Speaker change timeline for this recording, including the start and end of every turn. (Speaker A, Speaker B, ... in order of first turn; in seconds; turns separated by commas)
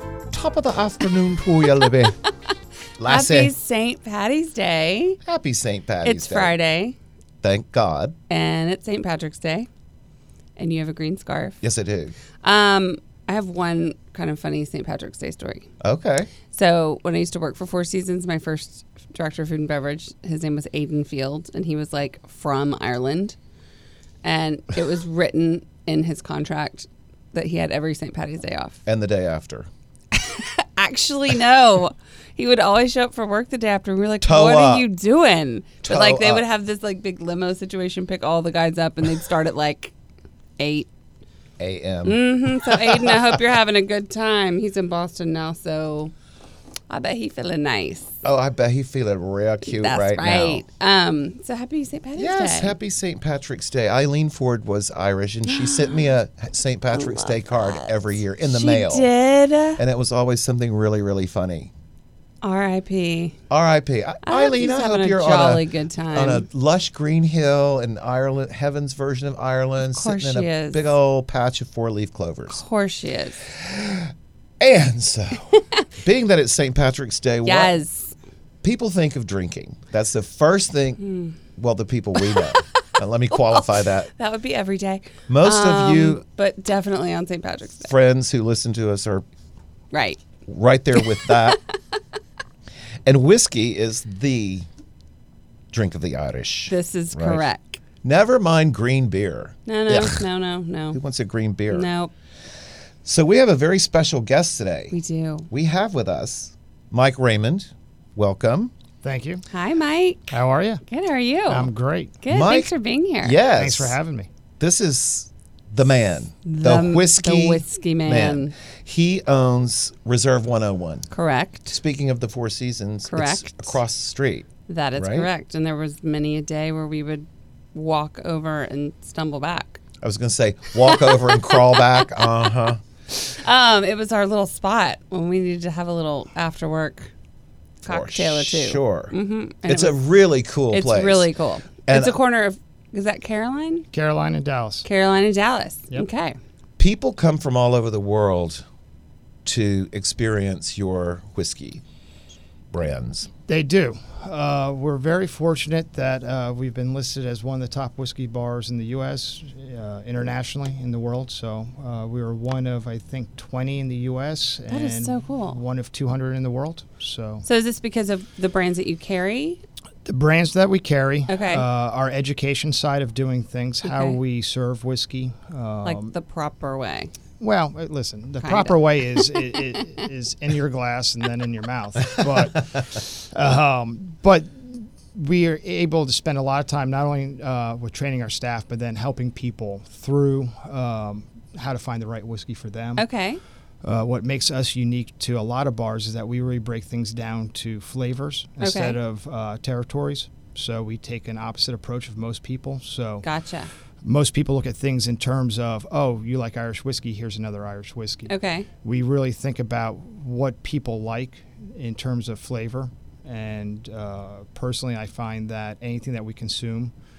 Speaker A: 0.3-2.2, Speaker A: 3.0-3.5, Speaker B: 3.0-5.2, Speaker A: 5.2-6.5, Speaker B: 6.0-7.0, Speaker A: 7.4-8.1, Speaker B: 8.3-9.7, Speaker B: 10.6-11.6, Speaker A: 11.6-12.1, Speaker B: 12.4-15.7, Speaker A: 15.8-16.3, Speaker B: 16.5-23.4, Speaker B: 24.2-28.8, Speaker A: 28.9-29.7, Speaker B: 30.1-39.9, Speaker A: 34.2-34.9, Speaker A: 35.8-36.5, Speaker B: 40.6-40.9, Speaker A: 41.6-43.4, Speaker B: 42.0-46.1, Speaker B: 46.9-48.1, Speaker A: 48.2-50.6, Speaker B: 49.6-52.8, Speaker A: 52.1-59.1, Speaker B: 55.5-56.1, Speaker B: 56.9-59.8, Speaker A: 59.8-61.7, Speaker B: 62.4-63.3, Speaker A: 63.5-72.6, Speaker B: 64.2-66.5, Speaker B: 69.8-71.0, Speaker B: 72.5-73.4, Speaker A: 73.5-74.1, Speaker A: 74.6-77.8, Speaker B: 77.4-78.1, Speaker A: 78.6-81.0, Speaker B: 81.0-81.4, Speaker A: 81.5-84.1, Speaker B: 82.2-82.6, Speaker B: 83.3-87.9, Speaker A: 85.3-86.2, Speaker A: 87.9-89.2, Speaker B: 89.9-90.2, Speaker A: 90.5-91.6, Speaker B: 90.9-91.5, Speaker A: 93.0-94.7, Speaker A: 95.7-97.5, Speaker B: 96.7-97.8, Speaker A: 98.0-100.2, Speaker B: 99.7-101.0, Speaker A: 100.9-101.9, Speaker B: 101.7-102.1, Speaker A: 103.0-104.9, Speaker B: 104.9-105.5, Speaker A: 105.5-108.7, Speaker C: 109.0-109.4, Speaker B: 109.5-110.3, Speaker C: 110.3-110.8, Speaker B: 110.9-113.4, Speaker C: 111.5-112.1, Speaker A: 112.3-114.0, Speaker C: 113.5-114.3, Speaker A: 114.6-121.1, Speaker B: 116.5-118.5, Speaker B: 121.1-121.8, Speaker A: 121.7-125.3, Speaker B: 123.1-123.8, Speaker B: 124.7-129.8, Speaker A: 130.0-132.8, Speaker B: 130.8-132.1, Speaker B: 133.4-137.1, Speaker B: 137.8-140.0, Speaker A: 137.9-139.1, Speaker A: 139.7-141.3, Speaker B: 140.7-143.9, Speaker A: 141.9-142.2, Speaker C: 143.9-144.9, Speaker B: 144.8-146.4, Speaker A: 146.8-148.6, Speaker A: 149.4-151.8, Speaker A: 152.7-153.3, Speaker C: 153.5-167.4, Speaker B: 164.7-165.6, Speaker B: 167.4-169.6, Speaker C: 170.1-176.1, Speaker B: 171.3-171.7, Speaker B: 173.8-174.2, Speaker B: 175.8-177.1, Speaker C: 177.4-193.1, Speaker B: 178.4-179.6, Speaker B: 193.0-193.4, Speaker C: 193.8-203.2, Speaker B: 198.6-199.0, Speaker B: 203.2-203.7, Speaker C: 204.0-216.9, Speaker B: 208.3-208.7